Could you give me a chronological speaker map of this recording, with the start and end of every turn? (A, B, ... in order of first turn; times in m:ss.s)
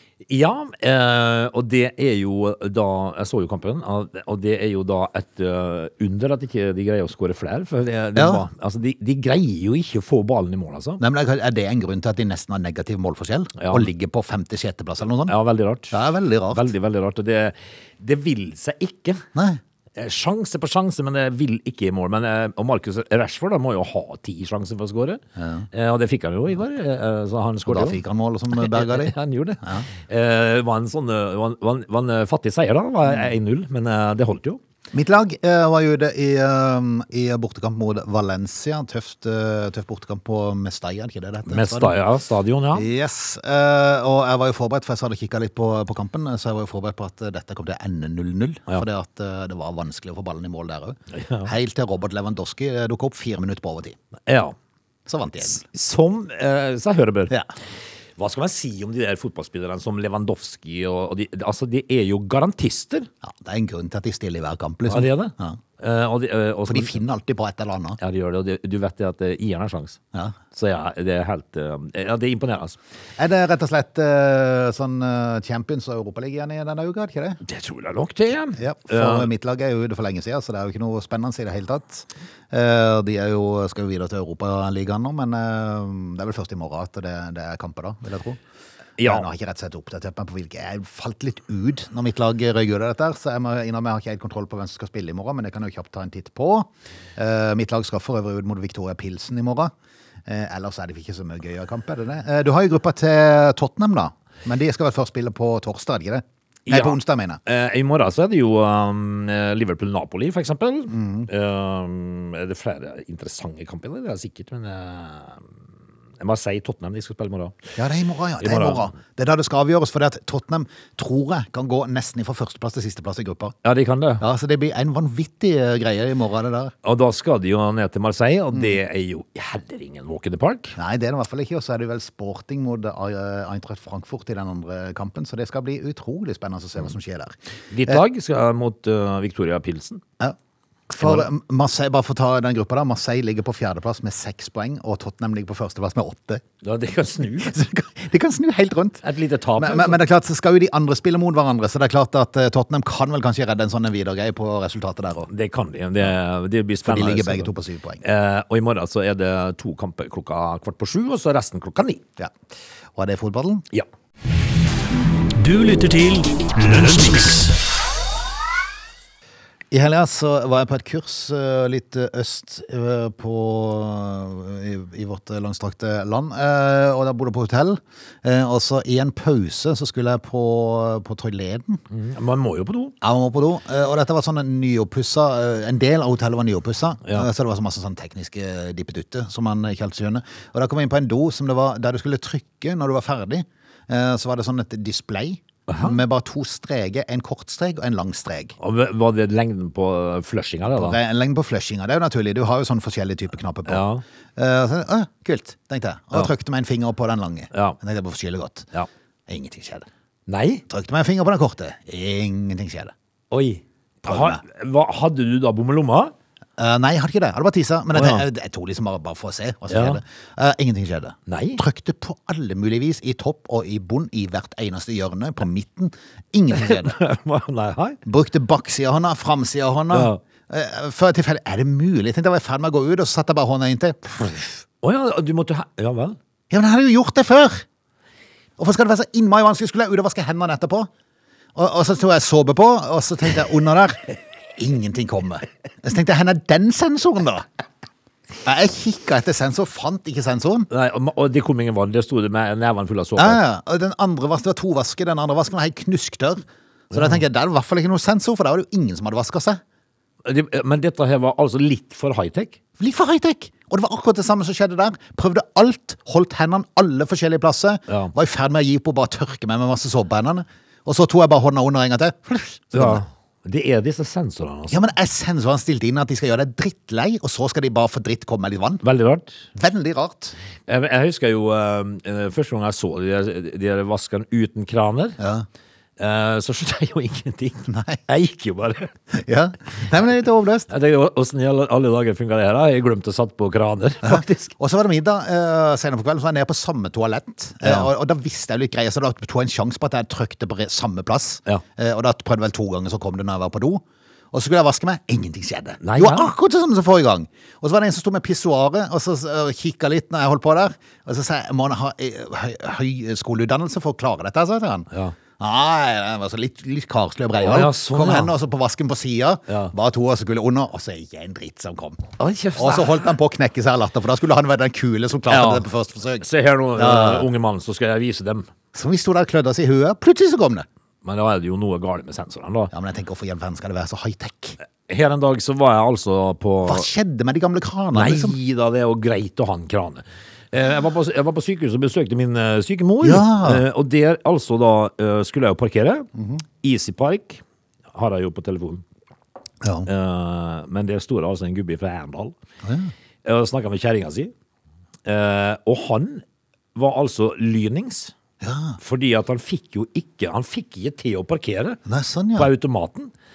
0:00.2-0:11.0 A
0:08.2-0:08.4 B
0:11.0-0:15.3 B
0:13.6-0:13.9 A
0:15.3-0:16.0 A
0:15.9-0:16.6 B
0:16.5-0:19.2 A
0:19.3-0:19.6 B
0:20.0-0:28.0 A
0:25.4-0:25.7 B
0:27.6-0:29.8 B
0:28.5-0:34.6 A
0:34.9-0:42.0 B
0:41.4-0:42.9 A
0:42.7-0:54.0 B
0:51.1-0:51.5 A
0:54.3-0:54.5 A
0:55.1-0:55.6 B
0:55.5-0:57.3 A
0:58.2-1:03.1 A
1:03.2-1:05.6 B
1:04.9-1:07.0 A
1:06.7-1:08.0 B
1:08.0-1:10.0 A
1:10.5-1:12.8 A
1:13.2-1:17.4 B
1:17.4-1:19.3 A
1:18.6-1:28.4 B
1:29.0-1:29.3 A
1:29.0-1:39.7 B
1:40.2-1:47.4 B
1:46.7-1:55.5 A
1:50.9-1:51.3 B
1:56.2-1:57.6 A
1:57.8-2:03.5 B
1:58.4-1:58.9 A
2:03.6-2:04.2 A
2:04.2-2:06.7 B
2:06.8-2:10.7 A
2:10.7-2:17.3 B
2:17.7-2:20.0 A
2:20.9-2:26.4 B
2:21.0-2:21.3 A
2:26.6-2:27.6 A
2:27.4-2:29.0 B
2:29.0-2:30.0 A
2:29.6-2:35.3 B
2:35.3-2:37.5 A
2:36.8-2:38.0 B
2:38.0-2:42.0 A
2:42.9-2:43.6 B
2:45.3-2:47.6 C
2:49.7-3:01.8 B
3:01.9-3:02.9 A
3:03.0-3:18.5 B
3:15.7-3:16.0 A
3:18.6-3:21.0 A
3:20.7-3:23.8 B
3:23.7-3:24.0 A
3:24.4-3:28.7 B
3:29.3-3:29.9 B
3:30.3-3:30.6 A
3:30.7-3:32.9 B
3:33.3-3:36.1 A
3:34.0-3:34.4 B
3:36.6-3:47.0 B
3:37.9-3:38.2 A
3:39.7-3:40.0 A
3:41.3-3:41.6 A
3:46.5-3:48.0 A
3:48.0-3:54.6 B
3:49.9-3:50.2 A
3:54.8-3:56.2 A
3:56.5-3:57.6 B
3:58.6-4:00.9 B
4:01.5-4:07.5 B
4:08.4-4:10.7 B
4:10.7-4:13.4 A
4:13.2-4:19.6 B
4:16.9-4:17.2 A
4:20.2-4:22.6 A
4:22.8-4:33.0 B
4:32.7-4:34.8 A
4:34.7-4:38.8 B
4:38.8-4:39.4 A
4:39.5-4:40.4 B
4:40.7-4:45.2 A
4:45.2-4:45.5 B
4:46.0-4:48.9 A
4:47.7-4:48.0 B
4:49.1-4:50.7 B
4:50.7-4:54.5 A
4:54.0-5:27.3 B
4:57.6-4:57.9 A
5:05.8-5:06.3 A
5:17.4-5:18.3 A
5:22.2-5:23.1 A
5:25.3-5:25.6 A
5:26.2-5:28.5 A
5:28.7-5:30.6 B
5:31.0-5:32.7 A
5:32.7-5:34.6 B
5:34.9-5:36.9 A
5:36.6-5:38.4 B
5:37.9-5:46.1 A
5:43.0-5:43.6 B
5:46.2-5:46.4 B
5:46.6-5:47.4 A
5:47.9-5:48.8 A
5:49.6-5:49.9 B
5:49.9-5:52.3 A
5:52.6-5:52.9 B
5:53.2-5:54.3 A
5:55.0-5:56.2 A
5:56.7-5:58.1 A
5:58.4-5:58.8 B
5:58.8-6:01.8 A
6:01.9-6:02.5 B
6:02.4-6:03.1 A